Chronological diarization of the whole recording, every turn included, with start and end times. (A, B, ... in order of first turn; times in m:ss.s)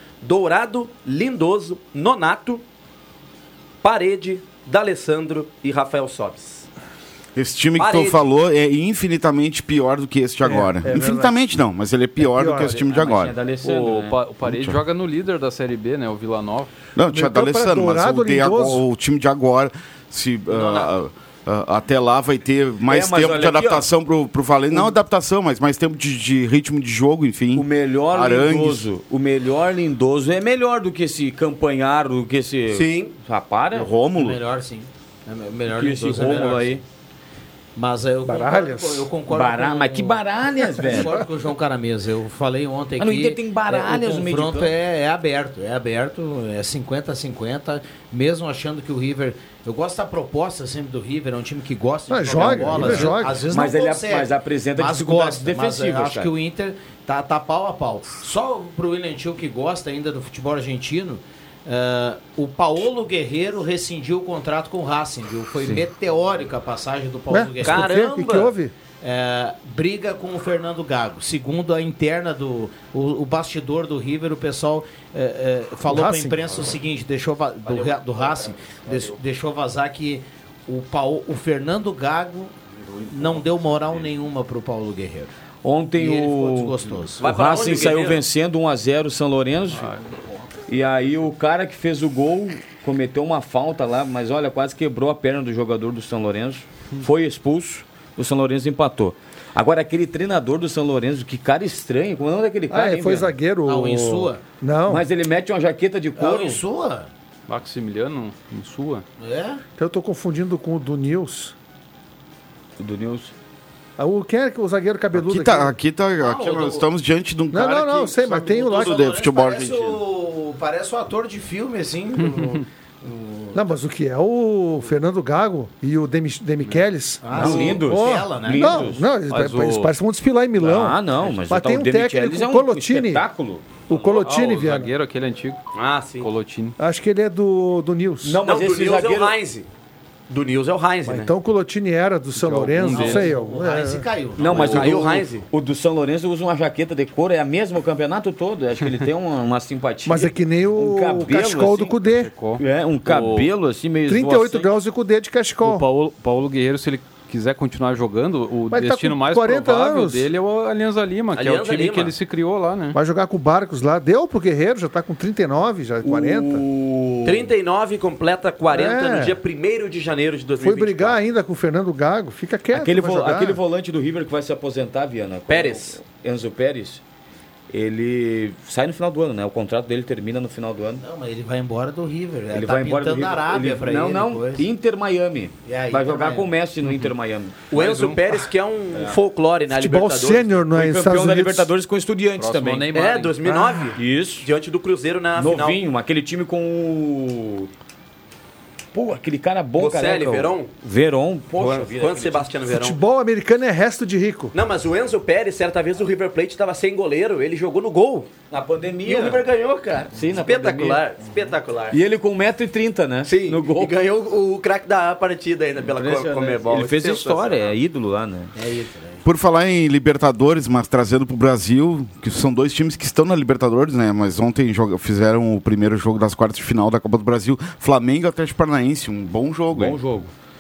0:00.2-0:02.6 A
0:03.8-0:06.7 A
0:07.4-0:13.4 B
0:07.8-0:08.2 A
0:10.4-0:11.4 C
0:12.2-0:12.8 C
0:12.8-0:14.2 D
0:13.6-0:16.7 E
0:14.5-0:14.8 B
0:17.0-0:28.8 B
0:17.1-0:18.8 C
0:20.6-0:20.9 F
0:22.9-0:23.9 D
0:27.6-0:33.9 D
0:32.7-0:33.1 A
0:33.7-0:34.4 B
0:34.1-0:36.8 F
0:35.7-0:36.8 D
0:37.8-1:08.0 F
0:38.2-0:39.1 C
0:39.3-0:41.2 D
0:43.0-0:44.7 D
0:52.1-0:53.4 C
0:52.5-0:56.3 D
1:07.3-1:08.7 C
1:07.6-1:08.5 A
1:09.0-1:22.5 F
1:15.9-1:16.5 C
1:23.1-1:25.3 F
1:25.6-1:29.9 D
1:26.0-1:27.2 F
1:27.2-1:28.2 A
1:30.7-1:43.3 D
1:42.7-1:45.1 C
1:43.6-1:44.4 F
1:44.9-1:46.6 D
1:46.2-1:47.1 F
1:47.5-1:49.0 E
1:49.2-1:49.6 F
1:49.8-1:51.5 C
1:52.8-1:53.3 D
1:54.0-1:55.7 C
1:55.1-2:00.0 B
1:56.2-1:56.9 F
1:57.5-1:59.0 C
1:58.6-2:03.6 F
2:03.5-2:13.2 C
2:07.2-2:08.9 F
2:07.3-2:09.1 D
2:09.3-2:09.9 E
2:10.6-2:13.8 D
2:13.9-2:14.9 C
2:14.2-2:15.6 E
2:15.7-2:16.3 A
2:16.2-2:16.8 E
2:16.8-2:18.4 C
2:18.2-2:19.4 D
2:18.4-2:19.6 A
2:20.3-2:21.3 A
2:21.1-2:24.1 C
2:22.4-2:23.3 E
2:22.9-2:25.0 F
2:24.4-2:32.0 D
2:24.5-2:25.4 A
2:30.0-2:32.3 C
2:32.0-2:33.5 E
2:32.6-2:34.7 D
2:34.1-2:35.8 C
2:35.6-2:43.0 E
2:38.7-2:40.2 C
2:41.4-2:42.1 A
2:42.9-2:46.6 C
2:46.0-2:47.5 D
2:47.2-2:51.2 A
2:48.7-2:49.4 C
2:50.6-2:53.6 C
2:52.7-2:57.0 D
2:55.5-2:56.0 A
2:57.7-3:01.0 D
3:01.0-3:04.6 F
3:02.5-3:07.8 D
3:05.6-3:06.5 F
3:07.7-3:10.6 A
3:07.7-3:08.2 E
3:09.7-3:11.7 C
3:10.7-3:12.9 D
3:12.4-3:13.4 E
3:12.9-3:15.8 A
3:13.4-3:13.8 C
3:13.9-3:14.5 D
3:15.4-3:17.7 D
3:18.9-3:22.6 D
3:19.8-3:20.7 A
3:21.6-3:23.0 A
3:22.7-3:24.5 C
3:24.5-3:28.3 A
3:28.5-3:29.5 D
3:29.1-3:32.0 A
3:30.1-3:31.0 D
3:31.9-3:33.9 D
3:33.2-3:37.7 A
3:35.8-3:38.5 D
3:38.6-3:39.2 F
3:39.2-3:50.0 B
3:49.7-3:50.3 D